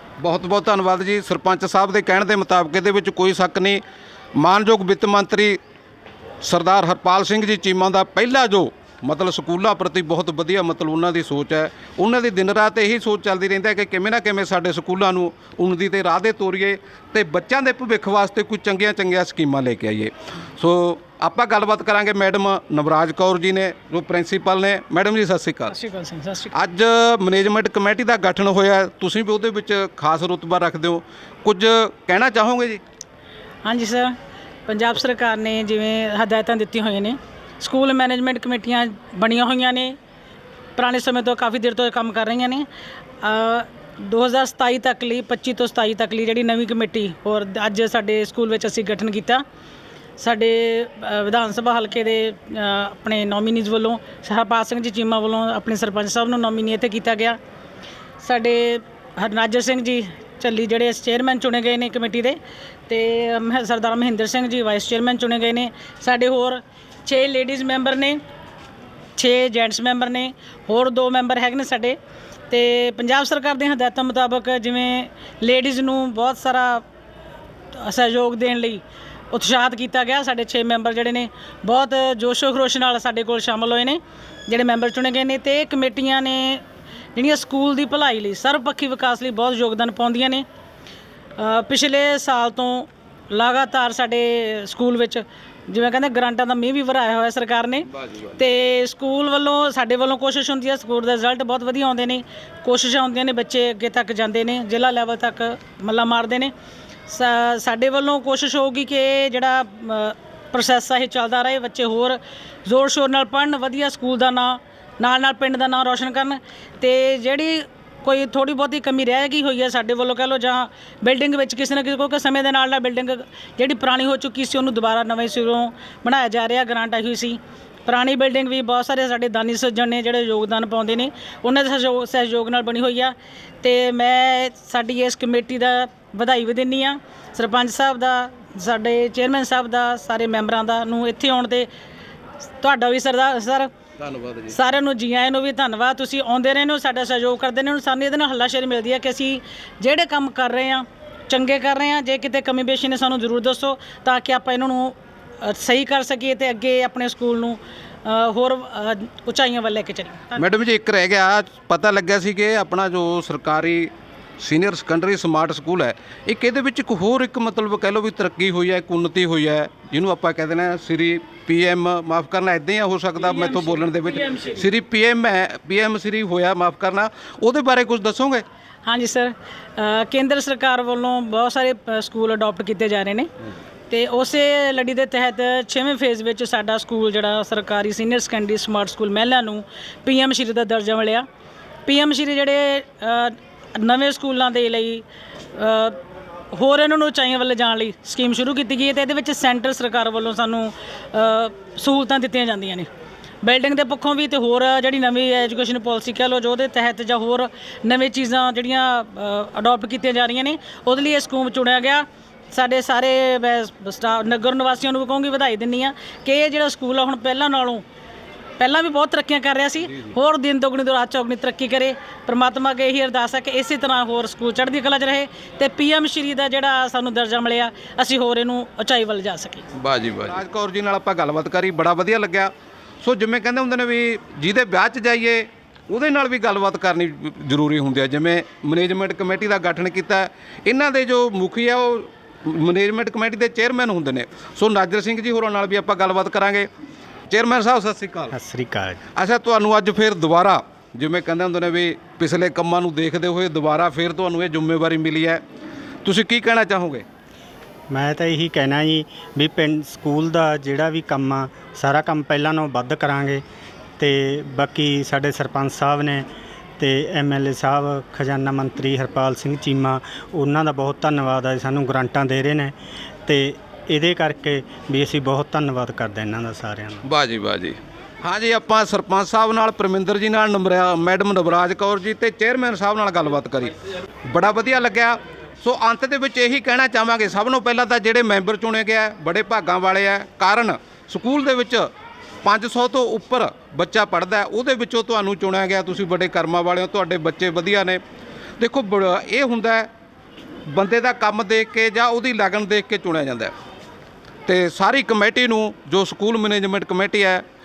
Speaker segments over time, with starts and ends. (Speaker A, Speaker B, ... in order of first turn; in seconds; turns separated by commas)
Speaker A: 0.2-3.8, Speaker A: 4.4-5.6, Speaker A: 6.4-25.7, Speaker B: 25.7-26.5, Speaker A: 26.5-32.8, Speaker B: 33.6-34.1, Speaker B: 34.7-40.0, Speaker B: 40.8-42.6, Speaker B: 43.2-49.4, Speaker B: 50.2-57.4, Speaker B: 58.2-68.2, Speaker B: 69.2-72.0, Speaker B: 72.5-76.8, Speaker B: 77.7-86.6, Speaker B: 87.1-90.4, Speaker B: 91.4-106.5, Speaker B: 107.1-141.7, Speaker B: 142.6-143.7, Speaker A: 144.0-144.5, Speaker B: 144.5-160.4, Speaker A: 160.4-178.4, Speaker B: 173.7-174.5, Speaker B: 178.8-183.3, Speaker B: 183.9-191.2, Speaker B: 191.8-196.0, Speaker B: 196.5-202.9, Speaker B: 203.4-217.8, Speaker B: 218.6-229.6, Speaker A: 229.7-232.5, Speaker A: 233.0-246.7, Speaker A: 247.3-248.3, Speaker C: 248.3-249.0, Speaker A: 249.2-255.4, Speaker A: 256.0-257.0, Speaker C: 257.9-263.4, Speaker C: 264.0-266.3, Speaker C: 266.8-272.7, Speaker C: 273.2-277.0, Speaker A: 277.0-283.7, Speaker A: 284.3-291.9, Speaker A: 292.4-298.0, Speaker A: 298.6-299.9, Speaker A: 300.7-303.5, Speaker A: 304.4-307.4